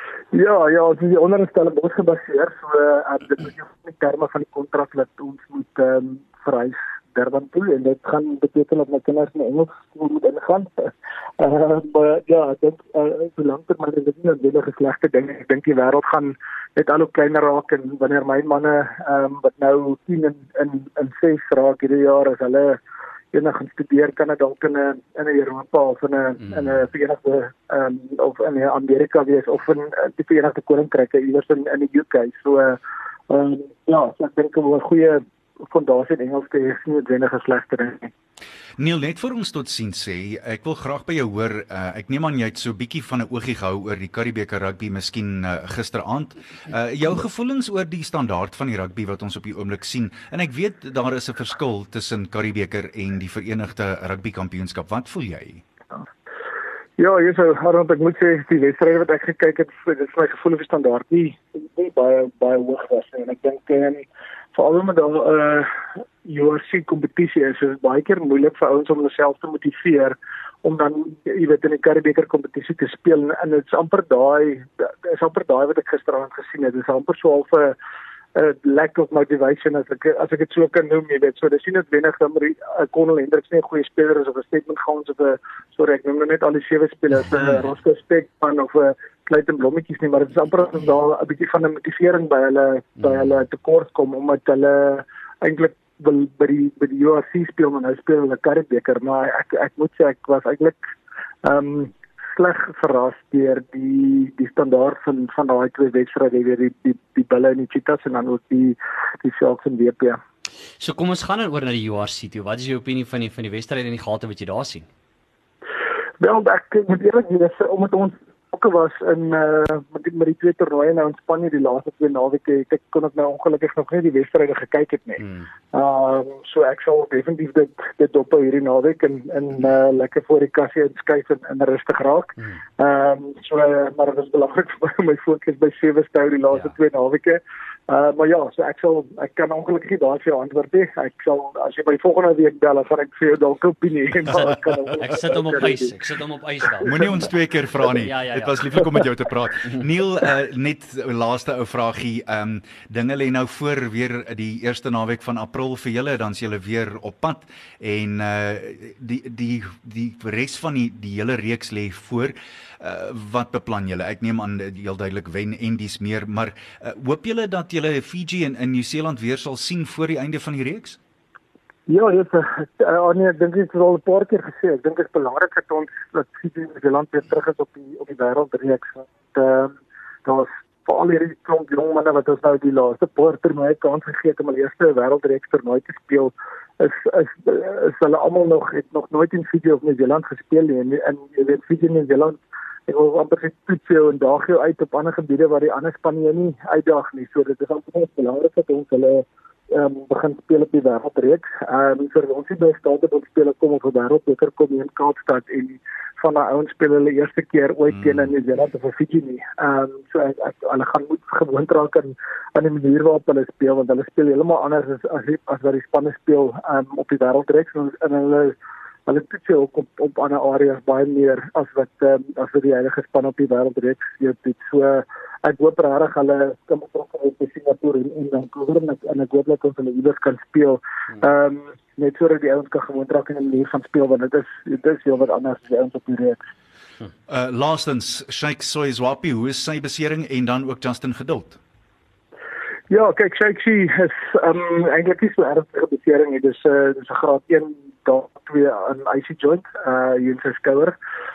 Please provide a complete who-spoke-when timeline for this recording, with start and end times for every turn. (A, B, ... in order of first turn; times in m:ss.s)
0:00.3-0:22.8 A
0:23.3-0:32.8 A
0:33.3-0:38.1 A
0:38.8-0:55.6 B
0:57.0-1:05.7 A
1:06.2-1:17.8 A
1:18.4-1:40.8 A
1:41.4-1:50.2 A
1:50.8-1:54.9 C
1:56.2-2:26.0 A
2:05.2-2:05.5 C
2:25.0-2:27.0 C
2:26.8-2:51.0 B
2:28.0-2:28.7 C
2:51.9-2:59.7 A
3:00.2-3:38.6 A
3:39.1-3:56.4 A
3:57.3-4:01.6 B
4:02.9-4:11.0 A